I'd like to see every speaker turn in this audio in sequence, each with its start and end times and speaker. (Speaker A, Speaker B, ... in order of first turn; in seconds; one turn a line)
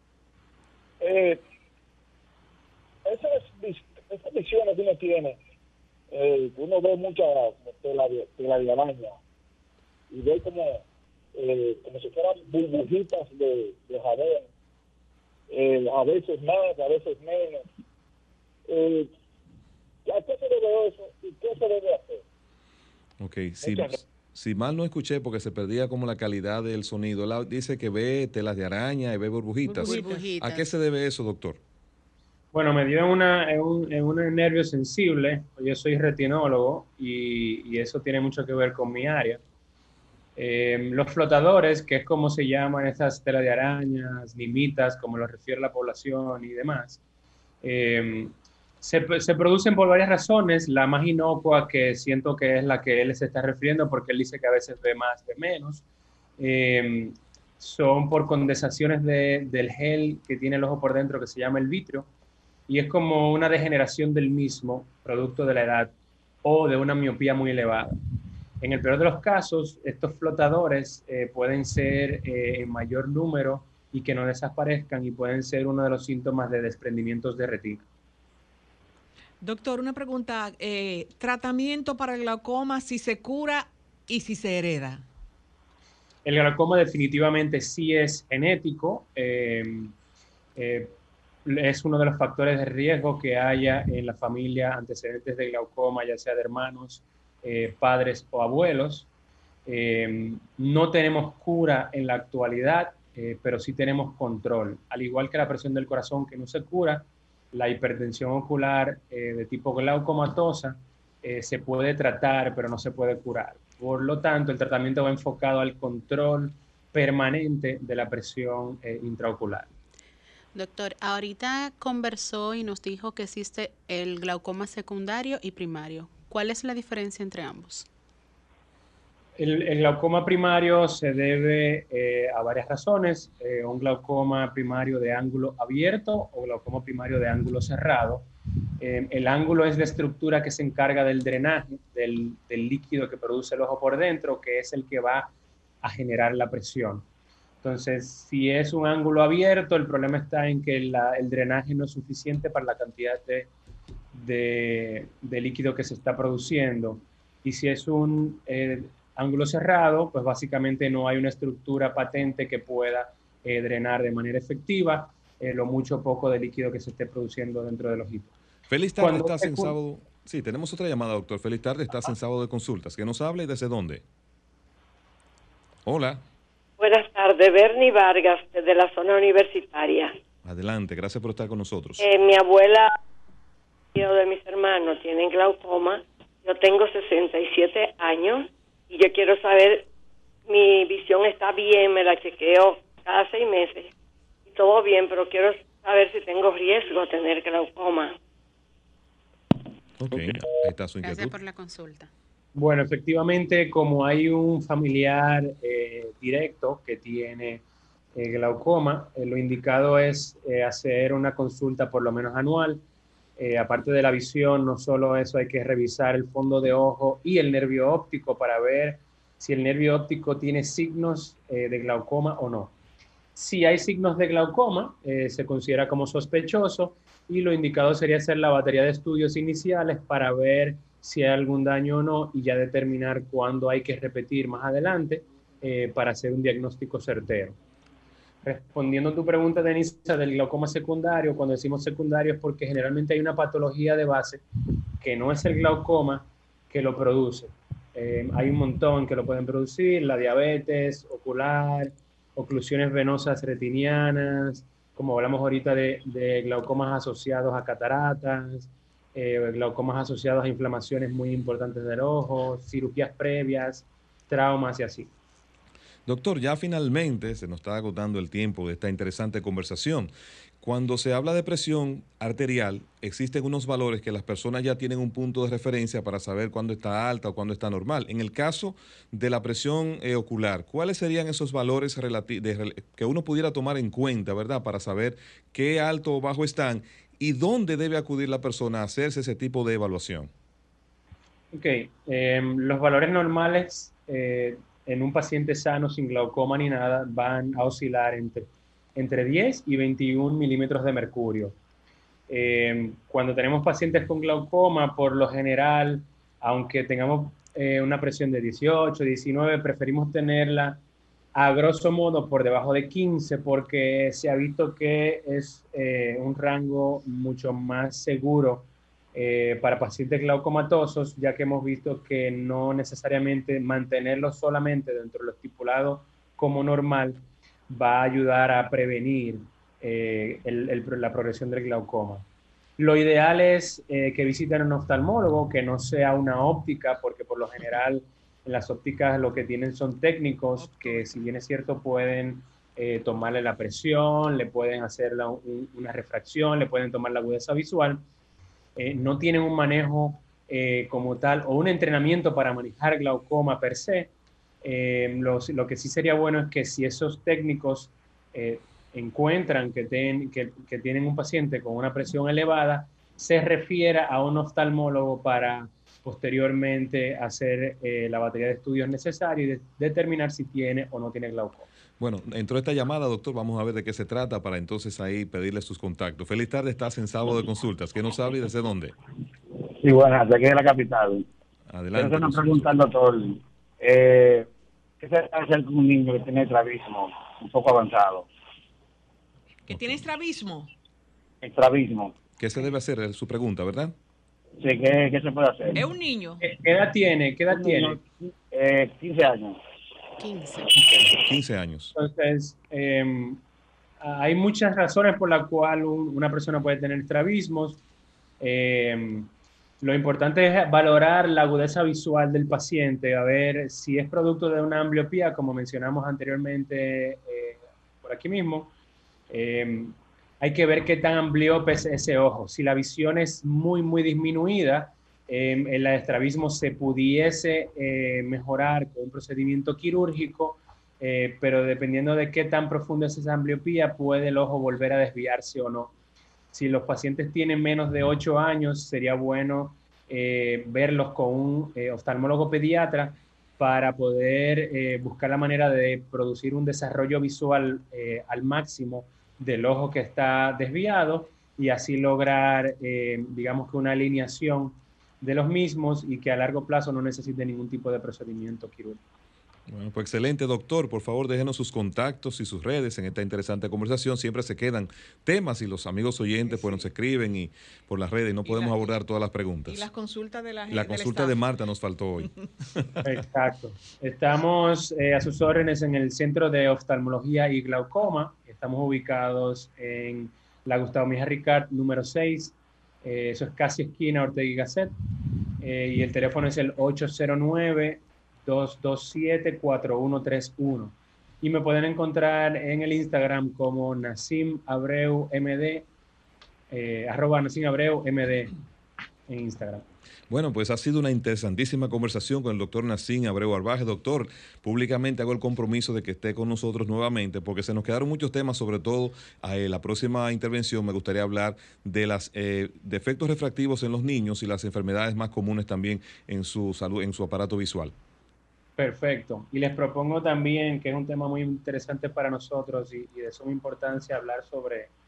Speaker A: 1.0-1.4
Speaker A: 3.0-5.4
Speaker A: 6.1-9.2
Speaker A: 10.1-10.8
Speaker A: 11.3-14.5
Speaker A: 15.5-17.7
Speaker A: 18.7-19.1
Speaker A: 20.1-22.2
Speaker B: 23.2-31.6
Speaker A: 23.6-24.0
Speaker C: 29.6-30.7
Speaker D: 32.5-39.4
Speaker D: 40.4-47.0
Speaker D: 47.6-55.8
Speaker D: 56.4-62.1
Speaker D: 62.7-65.9
Speaker D: 66.4-67.9
Speaker D: 68.6-77.8
Speaker E: 79.4-85.0
Speaker D: 86.2-89.9
Speaker D: 90.6-91.0
Speaker D: 91.5-99.1
Speaker D: 99.7-119.7
Speaker C: 120.5-127.9
Speaker D: 129.4-138.3
Speaker D: 138.8-147.1
Speaker D: 147.6-153.5
Speaker D: 154.1-168.3
Speaker B: 168.7-174.0
Speaker D: 169.0-169.7
Speaker B: 175.9-176.2
Speaker F: 176.8-180.2
Speaker B: 180.4-182.0
Speaker F: 182.0-183.0
Speaker F: 183.9-189.9
Speaker F: 190.5-193.9
Speaker F: 194.5-198.2
Speaker B: 200.0-201.4
Speaker C: 201.0-202.1
Speaker D: 202.6-207.6
Speaker D: 208.2-212.8
Speaker D: 213.4-222.7
Speaker D: 223.3-237.6
Speaker D: 238.4-244.4
Speaker D: 245.0-265.1
Speaker B: 266.1-290.3
Speaker D: 291.5-301.6
Speaker D: 302.3-310.8
Speaker D: 311.4-332.2
Speaker D: 332.8-348.1
Speaker E: 340.6-341.2
Speaker D: 348.8-354.1
Speaker D: 354.6-371.7
Speaker B: 372.0-378.9
Speaker G: 379.8-381.2
Speaker B: 381.7-382.7
Speaker G: 381.9-384.5
Speaker G: 385.0-388.3
Speaker E: 389.7-390.7
Speaker B: 389.7-390.0
Speaker G: 391.4-392.1
Speaker B: 392.4-393.9
Speaker G: 394.6-395.8
Speaker E: 395.8-396.4
Speaker D: 396.4-398.0
Speaker G: 397.5-399.6
Speaker C: 400.2-400.7
Speaker B: 401.2-401.9
Speaker D: 401.9-403.4
Speaker D: 404.0-407.8
Speaker D: 408.4-409.3
Speaker D: 409.8-418.7
Speaker D: 419.3-435.9
Speaker D: 436.5-459.0
Speaker B: 459.7-469.9
Speaker E: 466.6-466.8
Speaker E: 468.5-468.9
Speaker E: 469.7-471.4
Speaker B: 470.7-472.3
Speaker D: 473.0-484.9
Speaker D: 485.6-495.9
Speaker D: 496.7-498.6
Speaker D: 499.3-499.9
Speaker B: 500.3-518.0
Speaker D: 518.8-524.9